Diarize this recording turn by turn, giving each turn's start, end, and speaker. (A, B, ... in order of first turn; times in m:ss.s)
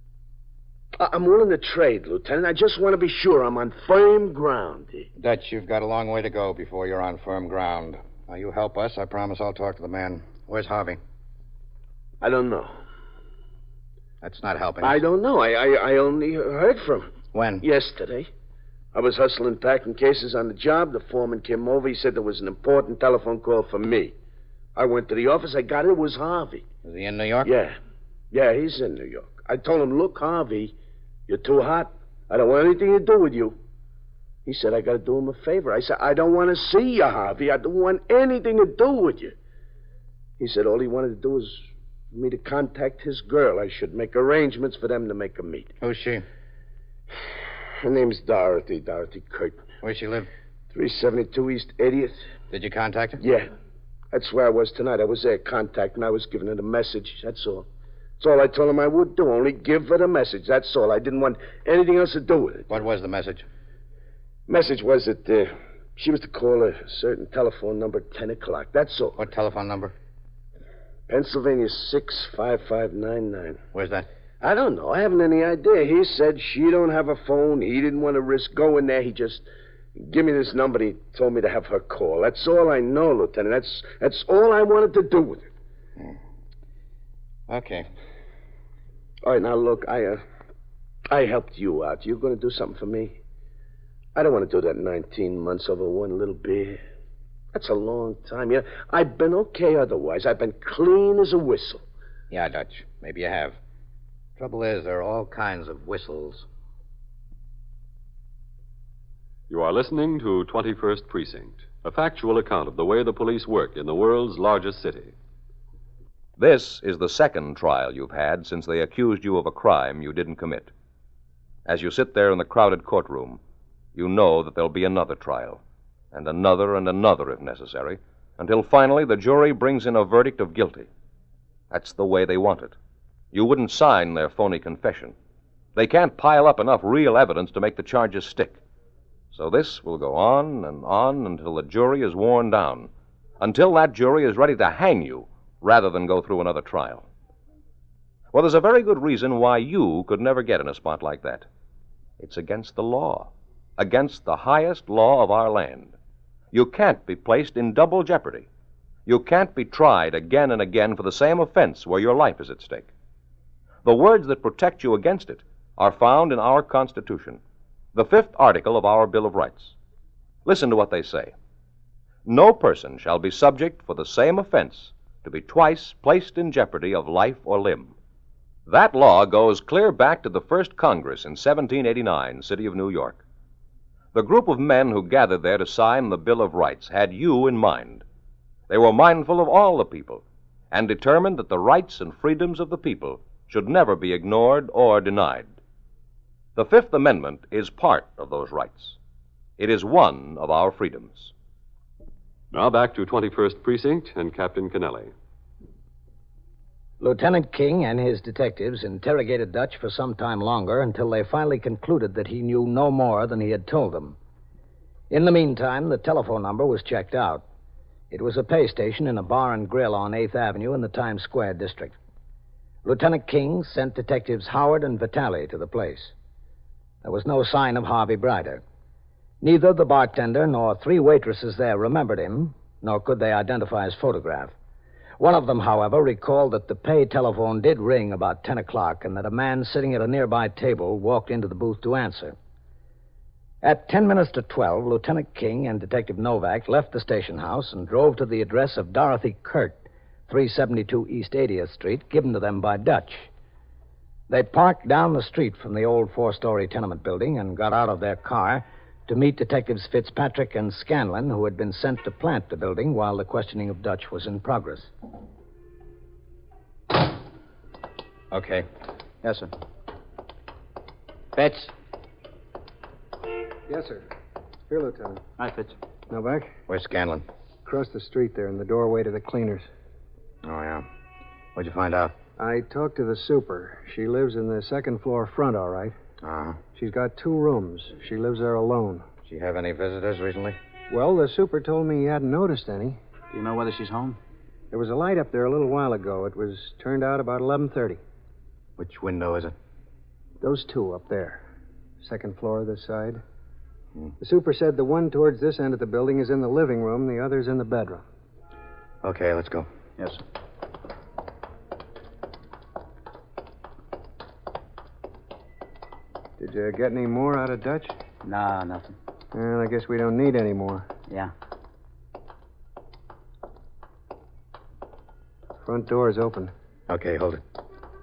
0:01.0-0:05.1 A
0:05.2-0:11.0 B
0:12.2-0:12.7 A
0:14.2-0:15.0 B
0:14.8-0:18.3 A
0:17.3-0:17.6 B
0:18.9-0:24.1 A
0:24.8-0:26.6 A
0:26.8-0:27.5 B
0:27.4-0:27.8 A
0:28.3-0:30.7 A
0:31.3-0:33.6 A
0:34.4-0:39.3 A
0:40.4-0:45.7 A
0:45.8-0:46.2 B
0:47.8-0:49.6 A
0:49.8-0:50.3 B
0:50.7-0:52.2 A
0:52.5-0:53.2 B
0:53.2-0:53.5 A
0:54.1-0:57.7 A
0:58.2-1:02.8 A
1:02.7-1:03.4 B
1:04.5-1:09.2 A
1:09.2-1:09.9 B
1:11.1-1:13.6 A
1:13.7-1:14.1 B
1:14.4-1:25.5 A
1:27.5-1:27.9 B
1:29.2-1:30.2 A
1:31.1-1:33.2 A
1:34.1-1:36.8 A
1:37.5-1:41.8 A
1:42.3-1:43.6 B
1:44.4-1:46.4 B
1:49.5-1:55.1 C
1:56.4-2:00.7 D
2:01.6-2:03.4 D
2:03.9-2:05.6 D
2:06.1-2:10.9 D
2:11.7-2:12.7 D
2:13.3-2:15.1 D
2:15.8-2:18.6 D
2:19.3-2:27.0 D
2:28.3-2:31.5 D
2:32.2-2:35.9 D
2:36.5-2:38.5 D
2:39.0-2:42.9 D
2:43.8-2:47.4 D
2:47.9-2:49.8 D
2:50.4-2:51.3 D
2:52.2-2:57.9 D
2:58.7-3:03.2 D
3:04.1-3:08.0 D
3:08.7-3:15.6 D
3:16.6-3:19.0 D
3:19.6-3:21.3 D
3:22.5-3:25.1 C
3:27.0-3:34.2 E
3:35.1-3:37.4 E
3:38.1-3:42.0 E
3:42.8-3:46.1 E
3:47.0-3:48.6 E
3:49.4-3:54.5 E
3:55.2-4:02.4 E
4:03.6-4:13.3 E
4:14.3-4:24.9 E
4:28.3-4:28.6 B
4:29.2-4:29.5 F
4:31.3-4:31.7 B
4:33.7-4:34.1 G
4:34.7-4:35.2 G
4:35.4-4:35.8 F
4:36.1-4:36.5 G
4:36.7-4:37.2 B
4:37.6-4:39.7 G
4:40.4-4:40.8 B
4:41.5-4:42.2 B
4:42.4-4:45.9 G
4:46.2-4:46.6 B
4:46.7-4:49.0 G
4:49.2-4:50.6 B
4:50.9-4:53.0 G
4:53.3-4:54.2 F
4:54.7-4:58.0 G
4:58.8-4:59.5 B
5:00.4-5:01.4 G
5:02.0-5:03.2 G
5:04.2-5:08.0 G
5:09.0-5:09.7 B
5:16.4-5:18.0 G
5:18.2-5:19.0 F
5:19.3-5:20.9 G
5:25.6-5:26.5 G
5:26.9-5:27.4 B